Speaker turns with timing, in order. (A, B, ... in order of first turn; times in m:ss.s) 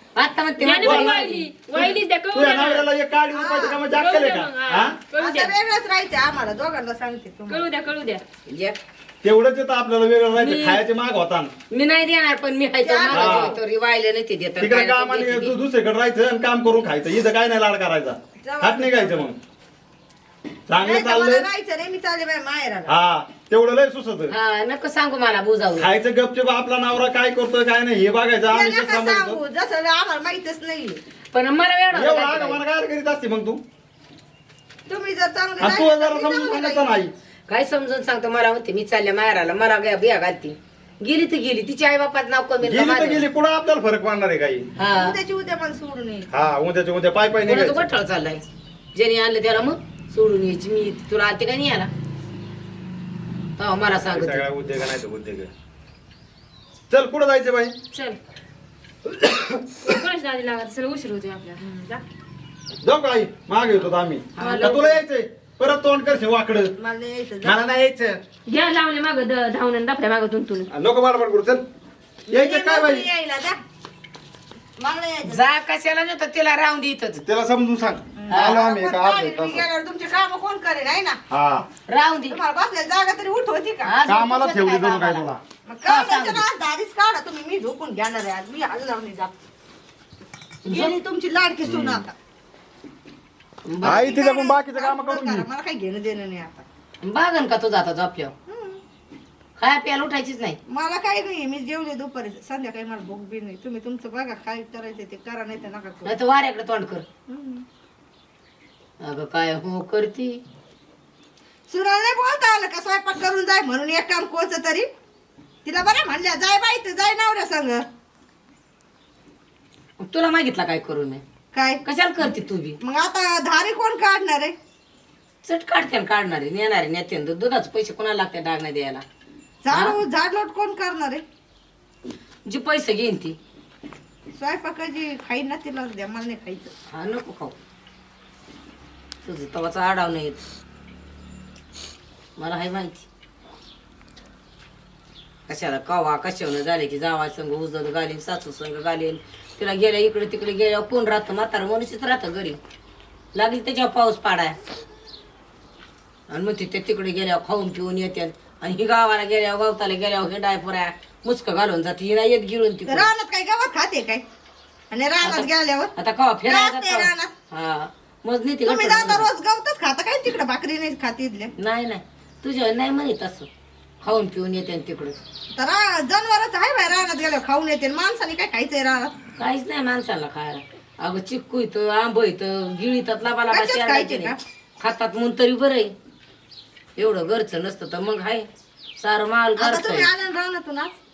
0:00.2-0:01.5 A
0:00.6-0:02.9 B
0:00.8-0:05.0 C
0:03.3-0:03.8 D
0:03.9-0:05.6 B
0:05.1-0:07.6 D
0:07.5-0:08.2 B
0:08.5-0:08.8 A
0:09.2-0:11.5 C
0:10.4-0:10.8 A
0:11.7-0:15.6 A
0:12.8-0:13.6 D
0:13.1-0:13.6 C
0:14.6-0:19.4 C
0:18.4-0:19.3 D
0:20.7-0:21.5 C
0:20.8-0:23.0 D
0:22.9-0:24.3 C
0:24.3-0:25.9 A
0:25.8-0:29.4 C
0:28.5-0:31.0 D
0:31.3-0:32.6 A
0:31.9-0:33.6 C
0:34.9-0:37.0 D
0:35.6-0:37.1 C
0:37.5-0:43.3 A
0:42.6-0:44.7 C
0:44.8-0:45.2 A
0:44.9-0:46.3 D
0:46.3-0:47.9 C
0:47.5-0:48.4 A
0:49.0-0:51.9 A
0:53.6-0:54.4 A
0:54.1-0:55.5 C
0:56.9-0:57.8 C
0:57.9-0:58.2 B
0:59.1-0:59.6 C
0:59.8-1:01.7 B
1:01.6-1:02.0 D
1:02.8-1:06.7 C
1:04.4-1:05.0 A
1:06.8-1:07.6 D
1:07.4-1:08.2 C
1:08.5-1:10.7 B
1:10.7-1:11.6 C
1:12.3-1:13.6 D
1:12.3-1:13.1 C
1:14.8-1:15.4 D
1:15.3-1:17.2 A
1:17.2-1:19.6 C
1:18.2-1:21.2 D
1:18.3-1:18.6 A
1:21.3-1:21.7 C
1:21.9-1:22.4 A
1:22.3-1:24.0 D
1:23.8-1:25.4 A
1:24.1-1:25.4 C
1:25.7-1:29.3 D
1:25.9-1:26.4 A
1:30.6-1:32.1 D
1:30.7-1:31.0 A
1:31.6-1:32.0 C
1:33.7-1:34.1 A
1:33.8-1:35.5 C
1:34.0-1:36.6 D
1:37.0-1:38.3 A
1:38.5-1:38.8 D
1:39.6-1:40.6 A
1:40.7-1:46.1 D
1:46.0-1:47.0 A
1:47.3-1:47.6 D
1:49.0-1:50.4 A
1:51.7-1:54.9 D
1:55.6-1:57.8 D
2:00.0-2:01.2 A
2:01.5-2:01.8 D
2:01.8-2:02.8 A
2:02.8-2:04.6 D
2:05.4-2:09.0 A
2:09.6-2:11.2 D
2:09.7-2:10.0 A
2:12.5-2:13.4 A
2:14.4-2:16.7 D
2:16.9-2:17.6 A
2:19.2-2:20.4 A
2:22.4-2:23.1 A
2:25.5-2:32.6 A
2:33.4-2:34.6 A
2:36.3-2:43.1 A
2:42.9-2:44.2 D
2:44.9-2:45.9 D
2:45.2-2:49.3 A
2:46.4-2:47.3 D
2:48.7-2:51.5 D
2:51.6-2:53.5 A
2:54.0-2:55.2 A
2:55.5-2:59.2 D
2:59.4-3:05.9 A
3:03.5-3:04.4 D
3:07.0-3:08.5 A
3:09.0-3:10.1 A
3:09.6-3:11.0 D